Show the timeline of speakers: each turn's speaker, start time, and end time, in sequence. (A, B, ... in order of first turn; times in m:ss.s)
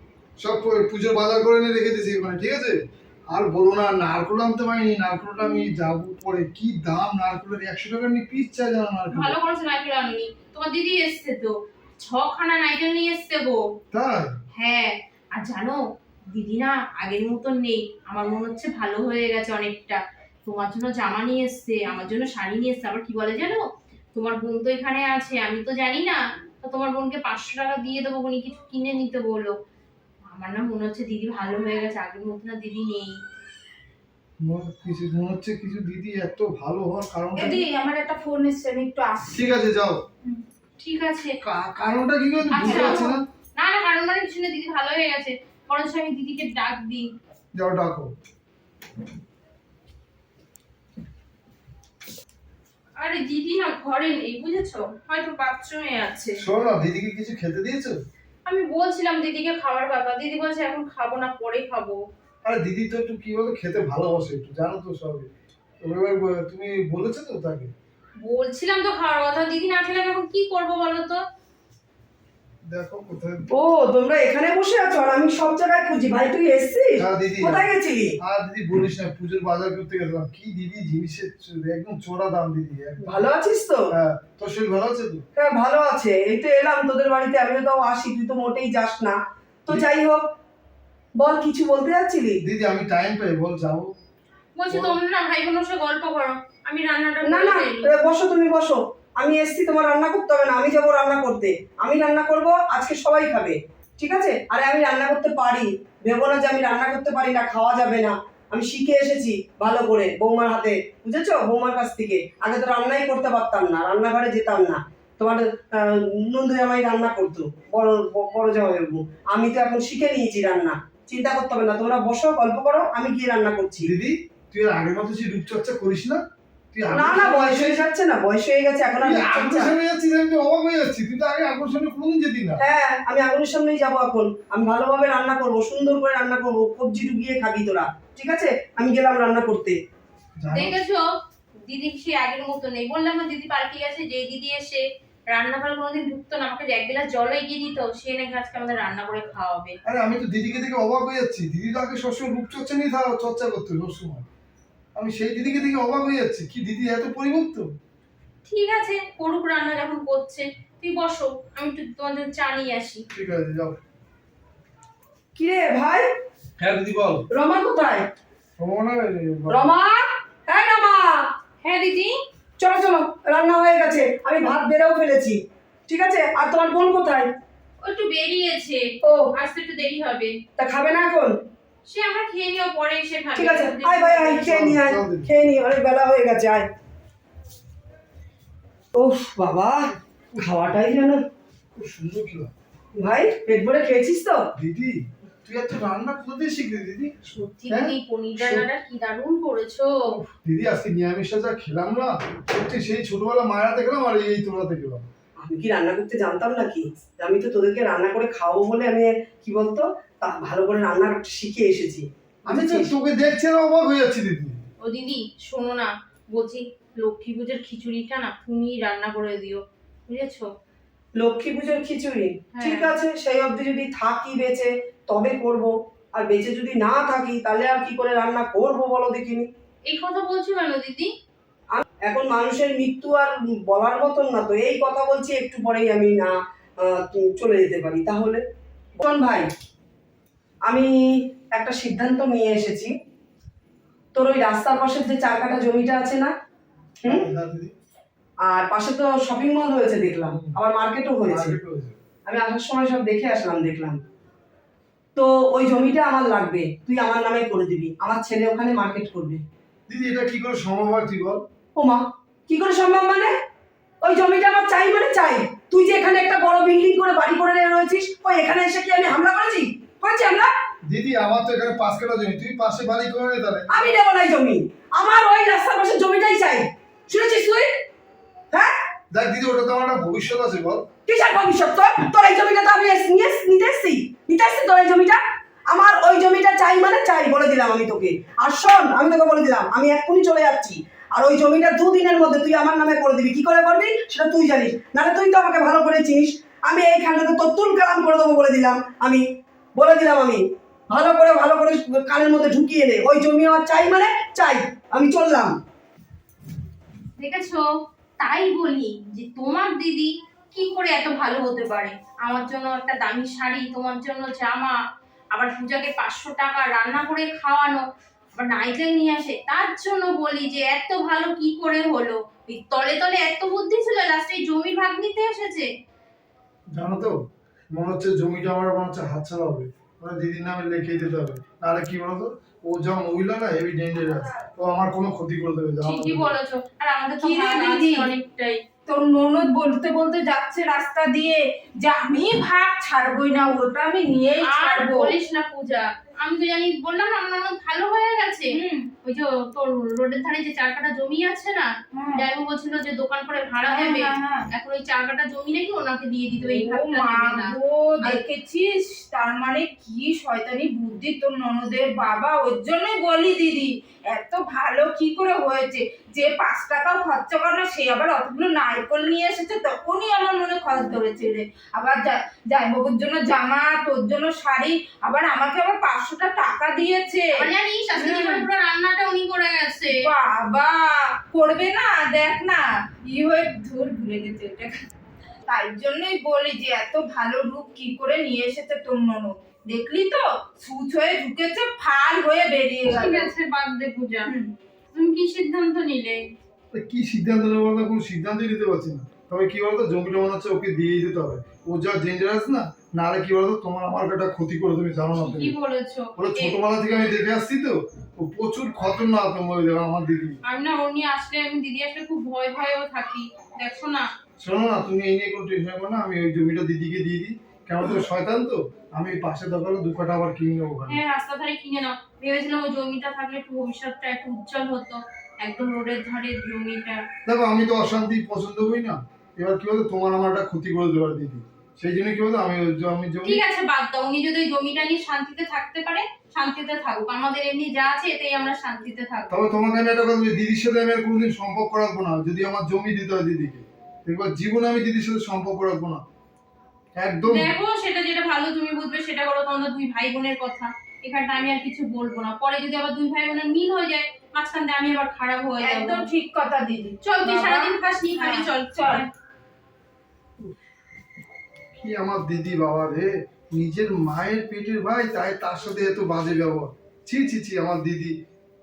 0:00.4-0:09.4 A
0:09.1-0:13.6 B
0:13.9-0:14.4 A
0:14.6-0:15.8 B
0:16.3-0:23.6 B
0:24.1-0:29.5 B
0:30.3-0:33.2 B
0:34.4-0:37.6 A
0:37.3-0:39.5 C
0:39.3-0:40.0 A
0:40.8-0:41.3 B
0:41.4-0:43.2 A
0:42.5-0:43.2 C
0:42.6-0:47.1 B
0:47.5-0:48.1 A
0:53.0-0:56.4 B
0:56.4-0:58.0 A
0:58.4-1:02.0 B
1:02.4-1:07.7 A
1:08.2-1:11.2 B
1:12.6-1:13.4 A
1:13.5-1:18.1 D
1:17.0-1:17.6 A
1:18.2-1:23.2 A
1:23.0-1:23.8 D
1:23.9-1:25.2 A
1:25.4-1:30.2 D
1:31.2-1:32.4 D
1:32.4-1:33.9 A
1:34.6-1:37.9 B
1:34.7-1:35.0 A
1:37.2-2:03.9 D
2:03.8-2:07.8 A
2:06.9-2:09.7 D
2:09.0-2:12.6 A
2:12.6-2:19.8 D
2:20.4-2:20.8 A
2:20.5-2:21.1 B
2:21.7-2:29.8 B
2:29.8-2:34.3 A
2:34.9-2:37.7 A
2:38.4-2:43.0 B
2:43.1-2:43.8 A
2:45.4-2:46.1 D
2:46.6-2:47.2 A
2:47.3-2:48.0 D
2:48.6-2:49.7 A
2:49.5-2:51.2 D
2:51.6-2:52.1 B
2:52.6-2:57.3 D
2:57.8-3:00.3 B
2:59.0-2:59.3 D
3:00.6-3:01.3 D
3:01.8-3:04.4 B
3:03.4-3:06.7 D
3:04.4-3:05.3 A
3:08.9-3:11.2 D
3:11.7-3:12.5 A
3:13.0-3:14.4 D
3:14.6-3:17.2 A
3:17.3-3:20.2 B
3:17.7-3:18.7 A
3:20.1-3:25.1 A
3:25.4-3:32.9 D
3:32.5-3:34.6 A
3:34.8-3:40.5 B
3:41.2-3:49.5 D
3:42.5-3:42.9 B
3:49.9-3:51.1 B
3:51.7-3:58.4 D
3:59.0-3:59.5 D
4:00.6-4:00.9 D
4:01.5-4:02.9 D
4:04.1-4:06.3 D
4:07.0-4:07.3 D
4:07.0-4:07.7 A
4:08.4-4:11.6 D
4:10.3-4:10.6 A
4:11.3-4:12.0 A
4:12.2-4:14.0 D
4:15.2-4:19.4 D
4:19.9-4:21.4 A
4:21.8-4:23.3 D
4:24.0-4:30.5 D
4:30.9-4:33.9 A
4:33.7-4:37.7 D
4:39.1-4:40.9 A
4:41.1-4:59.2 D
4:59.8-5:05.5 D
5:07.2-5:07.6 B
5:08.2-5:14.8 B
5:15.3-5:17.8 B
5:18.4-5:25.7 B
5:26.7-5:27.2 A
5:27.7-5:36.3 A
5:35.8-5:38.6 B
5:37.2-5:38.1 C
5:38.8-5:45.2 C
5:44.4-5:58.2 B
5:48.5-5:48.9 C
5:51.9-5:52.2 C
5:53.7-5:54.5 C
5:56.4-6:17.4 C
6:17.4-6:20.0 B
6:18.0-6:18.5 C
6:19.9-6:24.8 C
6:25.4-6:33.3 C
6:32.8-6:34.3 B
6:34.2-6:34.5 C
6:34.9-6:36.2 B
6:36.7-6:45.5 A
6:45.1-6:46.6 B
6:46.2-6:50.4 A
6:50.4-6:54.1 B
6:54.4-7:01.0 A
7:00.9-7:07.0 B
7:07.2-7:13.4 A
7:13.2-7:19.4 B
7:19.3-7:26.0 A
7:26.9-7:27.5 A
7:27.2-7:36.0 B
7:35.6-7:39.0 C
7:37.0-7:39.1 B
7:41.8-7:48.1 A